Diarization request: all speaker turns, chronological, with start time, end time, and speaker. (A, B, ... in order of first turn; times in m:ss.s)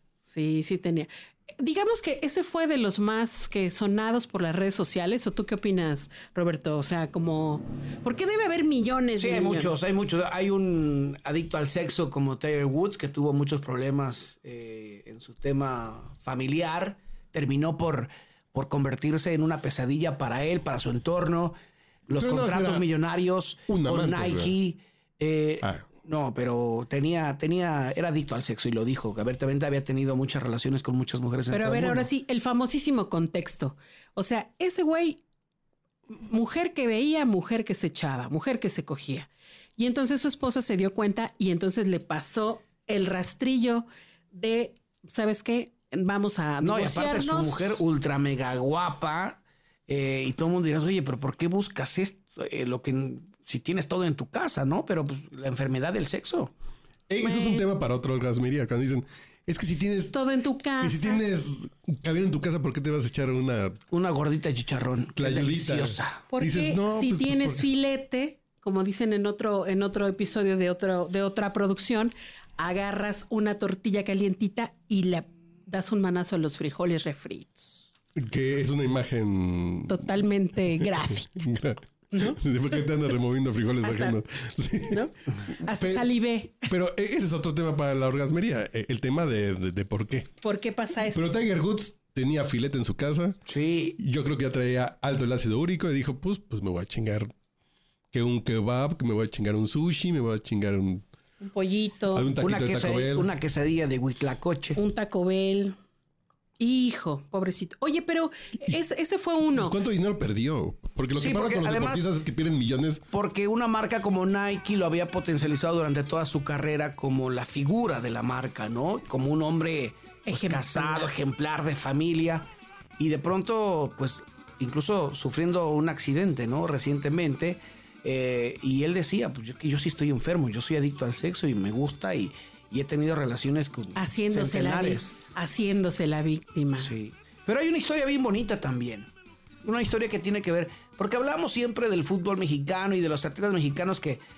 0:00.2-0:09.7 A
0:09.2-0:21.6 B
0:22.1-0:32.1 B
0:22.2-0:22.9 C
0:23.7-0:24.5 C
0:31.5-0:35.2 A
0:36.3-0:47.8 A
0:46.6-0:56.5 B
0:57.1-1:00.1 C
0:57.2-0:57.6 A
1:00.1-1:01.2 A
1:00.8-1:03.8 C
1:03.9-1:06.2 B
1:05.2-1:07.7 C
1:06.3-1:17.8 A
1:18.2-1:20.0 C
1:19.9-1:21.5 A
1:20.8-1:25.1 C
1:22.1-1:22.4 A
1:23.8-1:24.2 A
1:24.9-1:26.7 A
1:25.7-1:26.1 C
1:26.7-1:30.3 C
1:30.4-1:31.3 A
1:31.1-1:33.4 C
1:33.5-1:34.0 B
1:34.0-1:37.3 C
1:38.1-1:41.0 C
1:41.4-1:42.3 A
1:42.1-1:43.3 C
1:42.4-1:44.8 B
1:44.8-1:45.8 A
1:46.6-1:49.8 A
1:49.6-1:53.0 C
1:51.2-1:52.1 B
1:53.1-2:02.5 B
2:00.2-2:01.1 A
2:03.0-2:15.1 B
2:14.0-2:16.9 A
2:16.8-2:19.1 B
2:19.6-2:24.2 B